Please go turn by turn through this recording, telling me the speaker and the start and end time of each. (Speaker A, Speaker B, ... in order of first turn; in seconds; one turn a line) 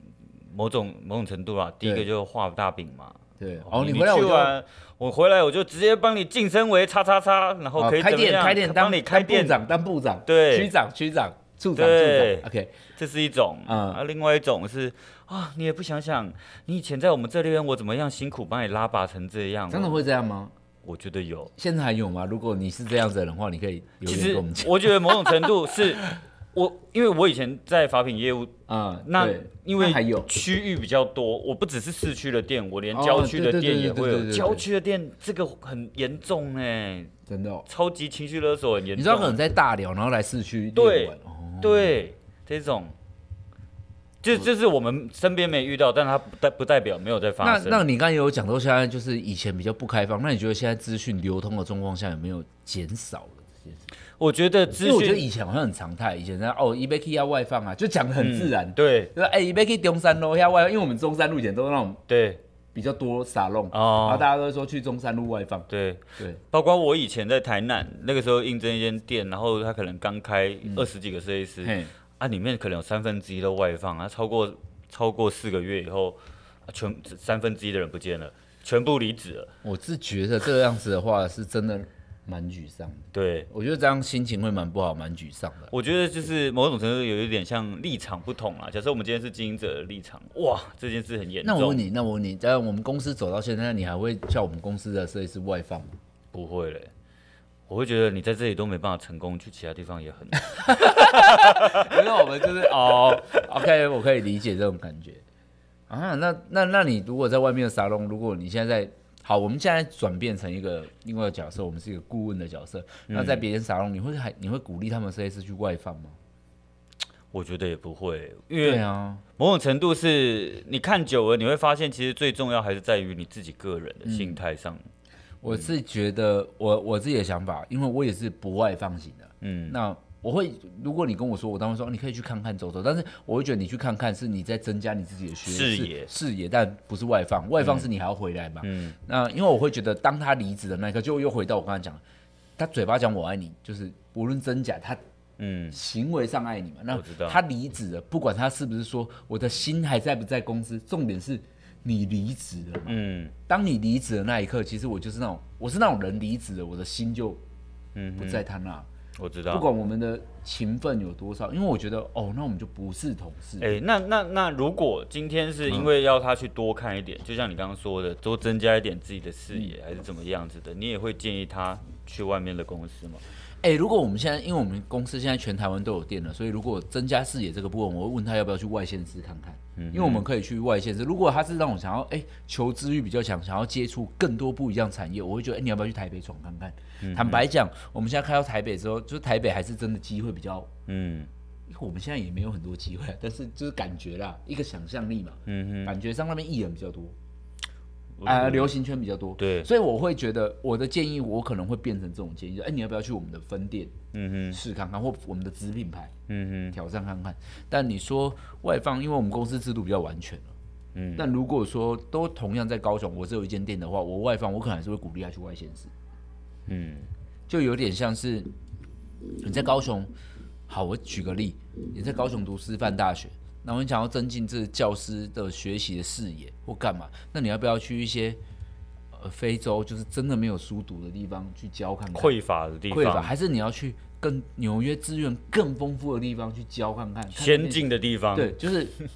Speaker A: 0.4-9.6
Speaker B: 1.8-2.1
Speaker B: 3.4-4.5
Speaker B: 7.8-12.8
Speaker A: 10.2-10.7
Speaker A: 11.8-20.0
Speaker B: 13.7-14.0
Speaker B: 19.7-20.5
Speaker A: 20.8-21.5
Speaker B: 21.6-25.7
Speaker A: 24.0-26.0
Speaker A: 26.5-28.5
Speaker B: 28.7-30.3
Speaker A: 29.1-37.1
Speaker B: 32.9-34.7
Speaker B: 37.3-37.7
Speaker A: 37.7-39.4
Speaker B: 39.0-42.0
Speaker A: 40.7-42.9
Speaker A: 44.2-47.8
Speaker B: 47.4-53.9
Speaker A: 54.2-55.3
Speaker B: 54.8-62.0
Speaker A: 58.2-59.1
Speaker A: 62.1-62.4
Speaker B: 62.7-65.7
Speaker A: 63.7-64.3
Speaker A: 65.7-79.5
Speaker B: 71.6-71.9
Speaker B: 79.6-85.7
Speaker A: 83.1-83.5
Speaker A: 85.7-91.9
Speaker B: 91.4-95.9
Speaker A: 96.3-96.9
Speaker A: 97.7-102.1
Speaker B: 100.5-105.2
Speaker B: 105.9-116.2
Speaker A: 113.1-113.4
Speaker A: 117.3-118.8
Speaker B: 118.6-119.2
Speaker A: 119.4-124.8
Speaker B: 124.0-124.4
Speaker B: 125.4-142.0
Speaker A: 129.4-129.8
Speaker A: 135.4-136.1
Speaker A: 137.6-137.9
Speaker A: 138.6-138.9
Speaker B: 142.6-145.0
Speaker A: 145.4-145.8
Speaker B: 145.7-157.4
Speaker A: 146.9-147.4
Speaker A: 152.9-153.3
Speaker A: 157.9-158.4
Speaker B: 158.2-158.9
Speaker A: 159.2-159.7
Speaker B: 159.5-163.8
Speaker A: 163.6-173.2
Speaker B: 173.6-190.7
Speaker A: 179.8-180.2
Speaker A: 187.0-187.4
Speaker A: 190.9-191.3
Speaker B: 191.7-197.1
Speaker A: 195.5-195.9
Speaker A: 198.2-198.7
Speaker B: 198.2-203.9
Speaker A: 199.4-199.7
Speaker A: 204.1-204.6
Speaker B: 204.5-206.1
Speaker A: 206.3-206.8
Speaker B: 206.7-210.5
Speaker A: 210.9-211.2
Speaker B: 211.2-215.9
Speaker A: 216.7-217.1
Speaker B: 217.5-218.5
Speaker B: 219.4-220.1
Speaker B: 220.7-228.4
Speaker B: 229.1-232.3
Speaker A: 232.1-233.3
Speaker B: 232.9-238.9
Speaker A: 237.3-238.5